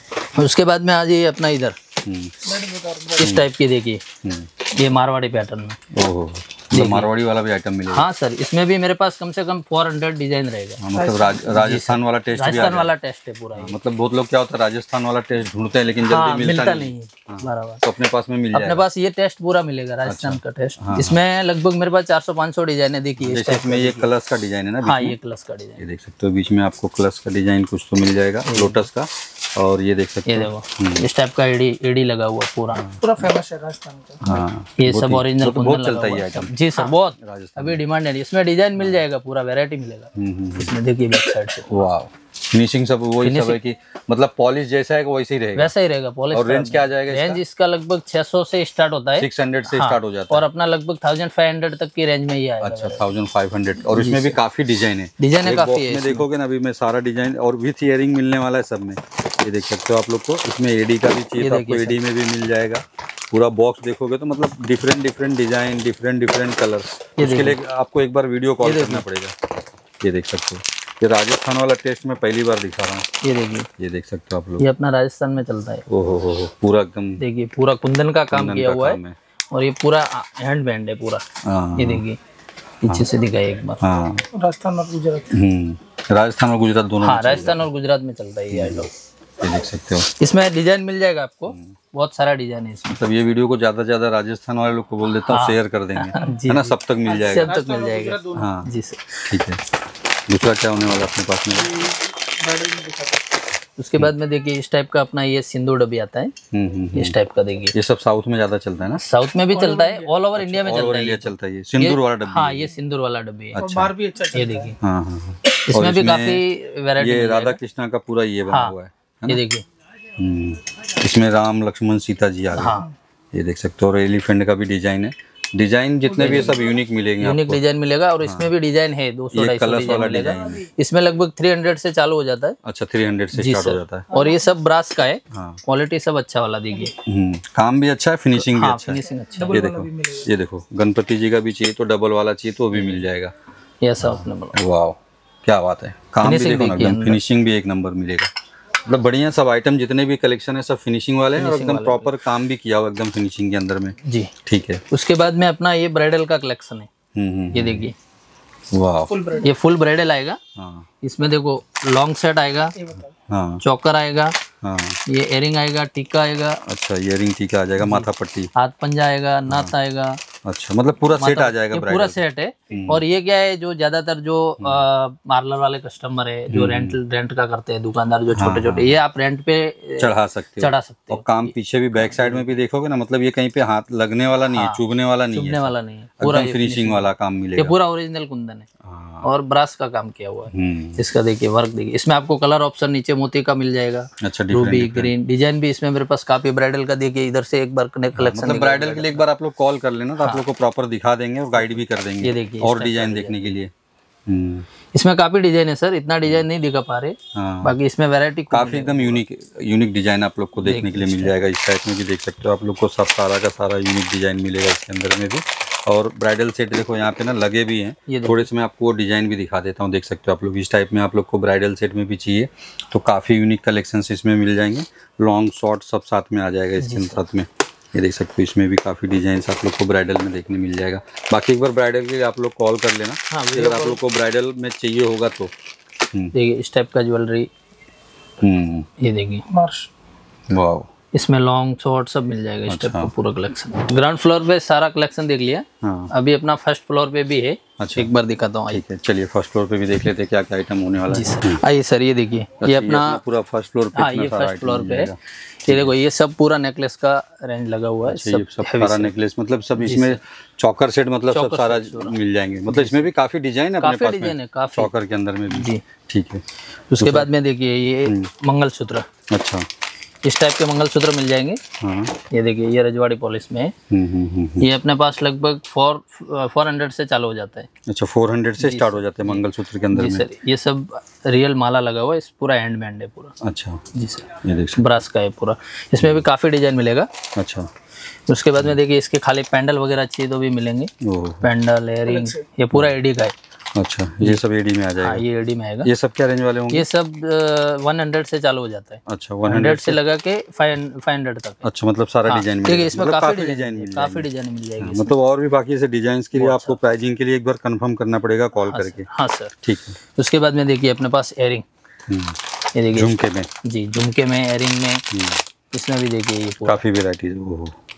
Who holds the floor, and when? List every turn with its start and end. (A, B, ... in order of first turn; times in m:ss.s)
0:00.3-0:01.8 A
0:02.0-0:02.6 B
0:02.6-0:03.1 C
0:03.1-0:04.0 A
0:03.2-0:03.5 B
0:04.2-0:04.5 B
0:04.7-0:05.8 A
0:05.9-0:08.1 B
0:06.7-0:07.1 A
0:07.9-0:13.8 A
0:10.8-0:12.9 B
0:13.6-0:18.9 B
0:16.0-0:17.8 A
0:18.5-0:24.1 A
0:20.0-0:21.2 B
0:23.2-0:25.2 B
0:24.8-0:25.8 A
0:25.8-0:31.0 B
0:28.5-0:28.9 A
0:30.3-0:32.9 A
0:32.8-0:33.2 B
0:33.0-0:34.2 C
0:34.2-0:37.8 B
0:34.8-0:41.8 A
0:38.8-0:39.0 B
0:40.2-0:40.8 B
0:41.7-0:45.7 B
0:43.2-0:43.6 A
0:45.6-0:53.0 A
0:46.3-0:47.4 B
0:49.2-0:50.5 B
0:52.6-1:09.3 B
0:53.9-0:54.4 A
0:55.2-0:56.3 A
1:01.4-1:02.0 A
1:07.2-1:07.6 A
1:08.6-1:09.0 A
1:10.0-1:13.1 B
1:13.2-1:13.7 A
1:13.8-1:14.6 B
1:14.6-1:15.8 A
1:15.9-1:17.2 B
1:17.2-1:19.0 A
1:18.3-1:19.2 B
1:19.5-1:21.2 A
1:21.4-1:22.0 B
1:21.8-1:22.2 A
1:22.8-1:23.8 A
1:23.8-1:24.3 B
1:24.3-1:25.3 C
1:25.3-1:27.7 B
1:27.0-1:28.9 A
1:28.5-1:28.9 B
1:29.4-1:30.1 B
1:30.2-1:33.0 A
1:32.9-1:37.6 B
1:35.2-1:39.4 A
1:37.6-1:38.3 C
1:38.3-1:38.7 B
1:39.3-1:39.6 B
1:40.3-1:41.9 B
1:41.9-1:43.1 C
1:43.8-1:46.3 A
1:46.5-1:47.2 B
1:46.9-1:47.7 A
1:47.7-1:49.0 B
1:49.0-1:53.6 A
1:50.4-1:52.7 B
1:53.5-1:54.0 B
1:53.6-1:54.4 C
1:54.2-1:54.8 A
1:54.8-1:56.4 B
1:55.7-1:57.6 A
1:57.0-1:59.4 B
1:58.5-1:58.8 A
1:59.3-1:59.6 A
2:00.2-2:07.6 B
2:02.5-2:02.9 A
2:06.2-2:06.6 A
2:07.2-2:12.6 A
2:08.2-2:08.5 B
2:09.3-2:10.7 B
2:12.6-2:14.1 B
2:13.3-2:16.9 A
2:15.3-2:15.6 B
2:17.0-2:23.3 B
2:18.4-2:19.7 A
2:19.6-2:20.2 C
2:23.8-2:24.6 A
2:24.0-2:28.3 B
2:26.2-2:27.2 A
2:28.8-2:34.8 B
2:31.4-2:32.1 A
2:34.0-2:34.3 A
2:34.9-2:36.9 A
2:37.2-2:37.9 B
2:37.5-2:38.0 A
2:38.7-2:39.3 B
2:39.2-2:40.4 A
2:40.6-2:40.9 B
2:41.0-2:42.8 A
2:43.3-2:43.6 B
2:43.6-2:44.3 A
2:44.6-2:45.0 B
2:45.1-2:46.6 A
2:46.7-2:48.5 B
2:47.8-2:50.2 A
2:50.4-2:52.2 B
2:51.2-3:02.6 A
2:52.7-2:53.0 B
2:54.6-2:54.8 B
2:56.5-2:57.0 B
2:58.3-2:59.0 B
3:00.0-3:07.8 B
3:04.5-3:04.8 A
3:05.3-3:08.7 A
3:08.8-3:09.3 B
3:09.2-3:19.2 A
3:10.5-3:11.0 B
3:14.2-3:15.1 B
3:18.2-3:23.7 B
3:20.2-3:20.4 A
3:21.6-3:23.6 A
3:24.3-3:24.7 B
3:24.9-3:29.2 A
3:27.4-3:27.8 B
3:28.5-3:55.5 B
3:30.6-3:31.3 A
3:38.1-3:38.5 A
3:46.8-3:47.2 A
3:53.3-3:54.0 A
3:56.3-3:57.5 A
3:58.4-3:58.9 B
3:59.0-3:59.7 A
4:00.5-4:00.9 B
4:01.1-4:08.8 A
4:02.7-4:03.1 B
4:05.8-4:06.1 B
4:07.8-4:08.1 B
4:08.7-4:11.6 B
4:11.1-4:13.2 A
4:12.6-4:15.2 B
4:14.0-4:15.1 A
4:15.7-4:19.1 A
4:15.7-4:16.0 B
4:18.0-4:26.4 B
4:19.8-4:20.2 A
4:21.3-4:22.2 A
4:22.7-4:23.1 A
4:23.8-4:24.9 A
4:25.5-4:25.8 A
4:26.9-4:29.1 A
4:27.0-4:27.3 B
4:28.0-4:28.3 B
4:29.3-4:29.7 B
4:30.2-4:31.6 A
4:31.8-4:32.1 B
4:32.3-4:33.7 A
4:33.9-4:34.7 B
4:34.6-4:37.7 A
4:37.9-4:40.3 B
4:38.6-4:43.3 A
4:43.4-4:43.8 B
4:43.9-4:47.1 A
4:44.4-4:44.8 B
4:46.0-4:46.2 B
4:47.4-4:47.7 B
4:48.3-4:50.9 A
4:51.0-4:51.5 B
4:51.4-4:53.3 A
4:53.8-4:55.3 B
4:55.0-4:55.9 A
4:55.8-4:56.9 B
4:56.7-5:01.6 A
4:59.1-5:00.0 B
5:01.6-5:04.3 B
5:02.3-5:05.1 A
5:04.8-5:09.1 B
5:06.4-5:06.8 A
5:08.6-5:09.5 A
5:09.6-5:10.0 B
5:10.2-5:11.6 A
5:12.1-5:12.4 B
5:12.8-5:15.0 A
5:13.0-5:13.5 B
5:15.1-5:15.4 B
5:15.7-5:16.8 A
5:16.6-5:17.8 B